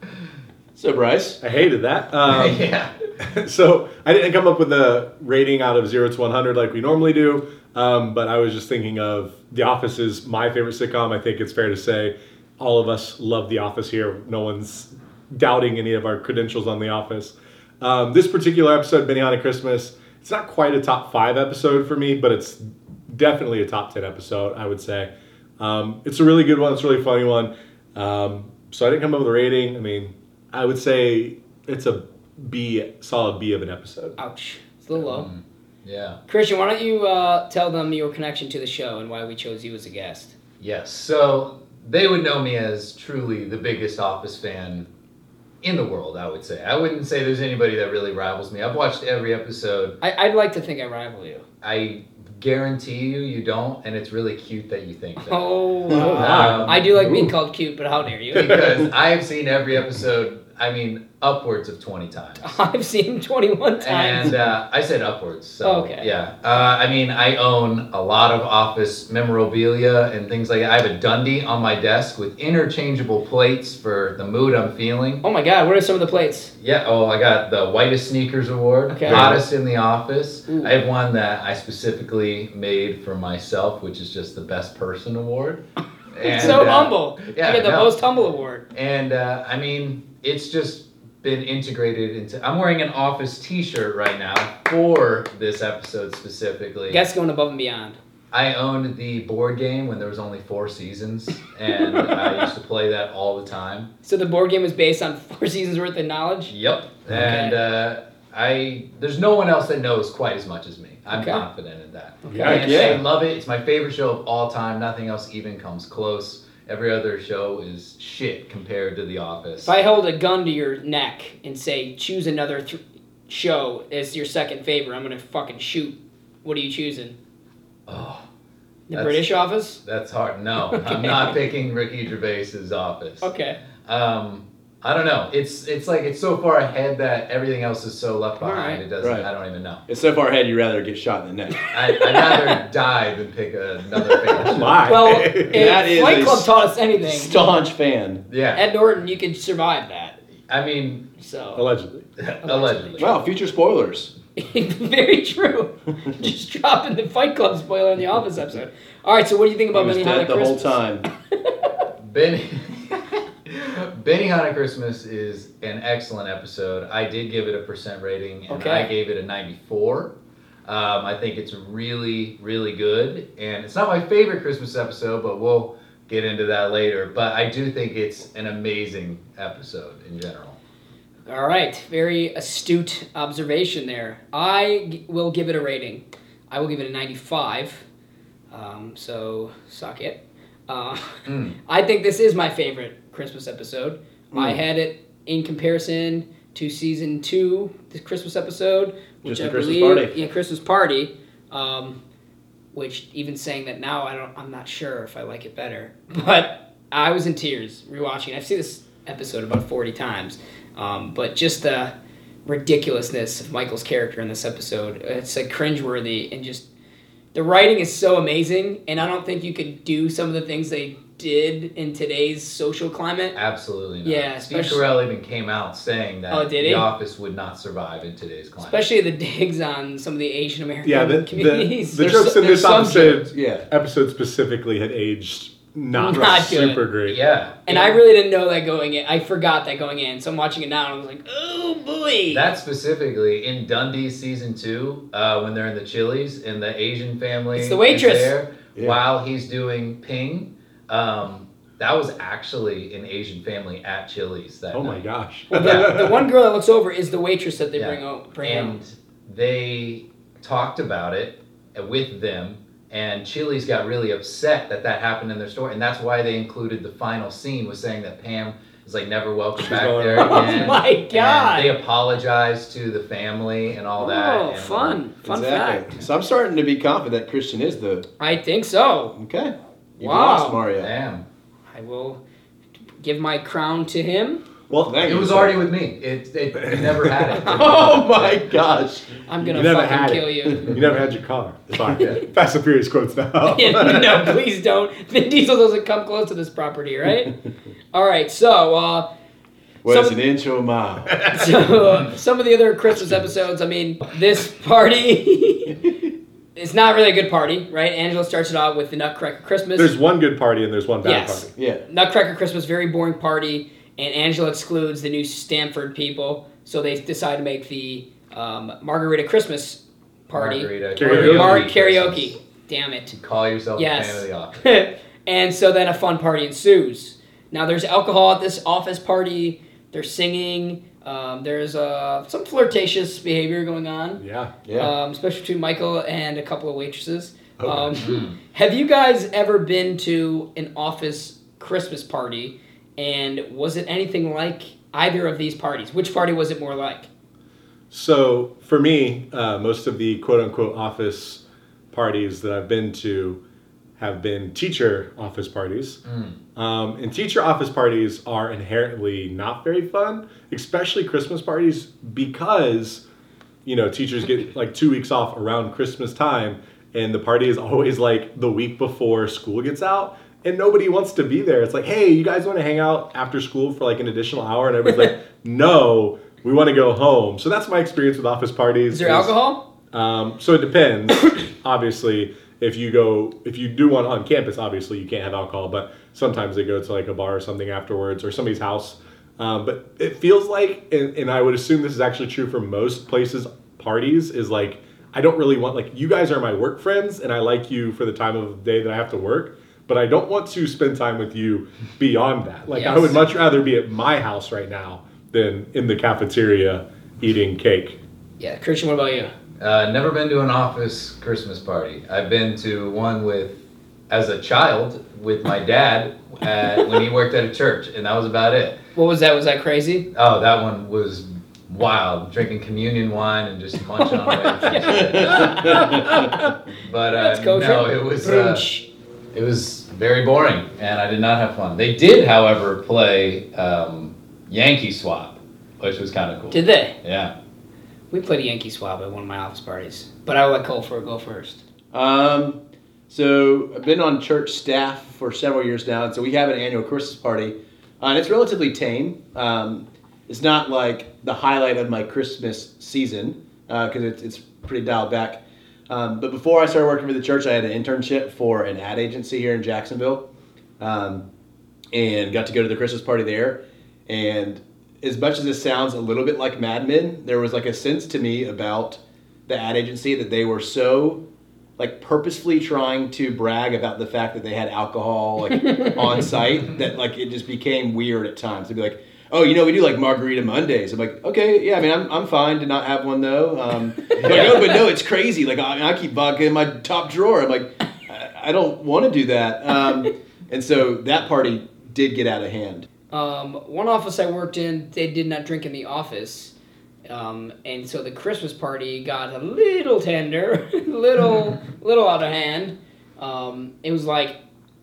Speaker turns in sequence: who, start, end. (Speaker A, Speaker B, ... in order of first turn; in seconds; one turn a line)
Speaker A: 0.8-1.4
Speaker B: 1.4-2.6
Speaker C: 2.2-2.9
Speaker B: 3.2-34.2
Speaker D: 34.2-35.3
Speaker C: 35.0-36.2
Speaker D: 36.3-40.3
Speaker C: 40.6-44.9
Speaker C: 45.6-50.0
Speaker D: 50.0-51.4
Speaker C: 51.6-56.8
Speaker D: 55.2-58.7
Speaker B: 55.9-57.3
Speaker C: 58.3-62.6
Speaker B: 58.4-58.7
Speaker D: 62.4-64.4
Speaker C: 63.8-75.2
Speaker D: 65.6-66.1
Speaker D: 75.2-76.5
Speaker C: 76.6-87.9
Speaker D: 78.9-79.3
Speaker B: 79.1-79.4
Speaker D: 86.2-88.6
Speaker C: 88.7-97.0
Speaker D: 96.9-98.0
Speaker C: 98.3-103.9
Speaker D: 101.9-102.2
Speaker D: 104.0-106.5
Speaker C: 106.5-119.7
Speaker D: 107.1-107.6
Speaker D: 111.1-111.4
Speaker D: 112.3-113.0
Speaker B: 112.3-112.6
Speaker A: 112.4-113.0
Speaker D: 119.6-127.2
Speaker C: 127.9-128.2
Speaker D: 128.9-129.8
Speaker C: 128.9-129.3
Speaker C: 129.8-133.3
Speaker D: 130.7-131.4
Speaker D: 133.2-133.6
Speaker C: 133.8-139.8
Speaker D: 138.4-138.8
Speaker A: 139.0-139.3
Speaker A: 139.9-141.7
Speaker D: 141.7-142.6
Speaker C: 141.7-144.8
Speaker B: 144.3-145.8
Speaker D: 144.8-147.4
Speaker A: 145.5-146.5
Speaker A: 147.0-148.2
Speaker C: 148.3-148.7
Speaker D: 148.5-150.2
Speaker C: 150.5-151.1
Speaker D: 151.2-151.7
Speaker B: 151.5-152.0
Speaker C: 152.2-153.1
Speaker D: 152.4-153.1
Speaker A: 153.0-154.1
Speaker D: 154.3-161.6
Speaker A: 159.7-161.1
Speaker C: 162.0-170.1
Speaker D: 168.5-168.9
Speaker C: 170.7-180.6
Speaker D: 181.3-187.8
Speaker D: 188.5-202.0
Speaker C: 191.3-191.5
Speaker A: 194.3-194.6
Speaker A: 199.2-200.2
Speaker D: 202.7-211.9
Speaker D: 212.4-216.7
Speaker D: 217.3-223.4
Speaker C: 223.3-228.8
Speaker D: 224.0-224.8
Speaker D: 226.3-226.9
Speaker D: 228.6-233.2
Speaker B: 230.8-237.2
Speaker A: 233.3-233.7
Speaker D: 235.9-236.9
Speaker A: 236.1-236.4
Speaker C: 237.0-237.9
Speaker D: 237.7-242.5
Speaker C: 242.3-255.0
Speaker D: 247.5-248.3
Speaker A: 248.7-249.0
Speaker B: 254.7-256.3
Speaker D: 255.5-258.8
Speaker C: 255.5-255.9
Speaker C: 257.8-275.0
Speaker B: 269.6-270.8
Speaker D: 270.2-271.7
Speaker D: 274.0-275.9
Speaker A: 275.2-278.1
Speaker D: 278.2-279.1
Speaker A: 279.1-280.9
Speaker D: 280.0-280.6
Speaker C: 280.8-281.2
Speaker D: 281.7-282.2
Speaker D: 283.0-284.4
Speaker B: 284.7-285.1
Speaker A: 284.8-285.7
Speaker C: 285.0-288.6
Speaker A: 287.3-289.2
Speaker D: 289.2-290.7
Speaker B: 289.5-294.4
Speaker C: 291.9-292.2
Speaker D: 293.4-297.3
Speaker D: 297.9-299.1
Speaker A: 299.8-301.2
Speaker D: 299.9-300.1
Speaker B: 301.2-301.5
Speaker D: 301.3-305.9
Speaker D: 306.6-309.9
Speaker B: 309.8-311.5
Speaker D: 311.0-323.1
Speaker A: 311.6-311.8
Speaker C: 320.3-322.3
Speaker B: 320.9-321.6
Speaker C: 323.1-324.6
Speaker D: 323.8-334.2
Speaker B: 334.2-334.5
Speaker A: 334.6-334.9
Speaker D: 334.7-347.1
Speaker B: 337.6-338.0
Speaker C: 338.0-338.4
Speaker B: 347.9-351.4
Speaker B: 351.9-353.4
Speaker B: 354.0-356.0
Speaker C: 356.0-356.4
Speaker B: 356.6-363.0
Speaker B: 363.6-379.3
Speaker D: 378.9-379.6
Speaker B: 379.9-408.0
Speaker D: 402.7-403.2
Speaker D: 408.4-409.3
Speaker C: 409.6-418.8
Speaker D: 418.9-420.1
Speaker C: 420.1-428.7
Speaker D: 424.0-426.5
Speaker A: 424.9-426.1
Speaker D: 427.1-428.9
Speaker C: 429.3-437.3
Speaker D: 436.5-436.9
Speaker D: 438.1-441.6
Speaker A: 441.9-442.6
Speaker A: 443.1-460.2
Speaker A: 460.8-461.2
Speaker A: 461.9-471.2
Speaker A: 471.8-492.9
Speaker D: 475.6-476.2
Speaker C: 484.2-484.7
Speaker D: 484.2-484.6
Speaker D: 493.1-496.5
Speaker D: 497.1-504.4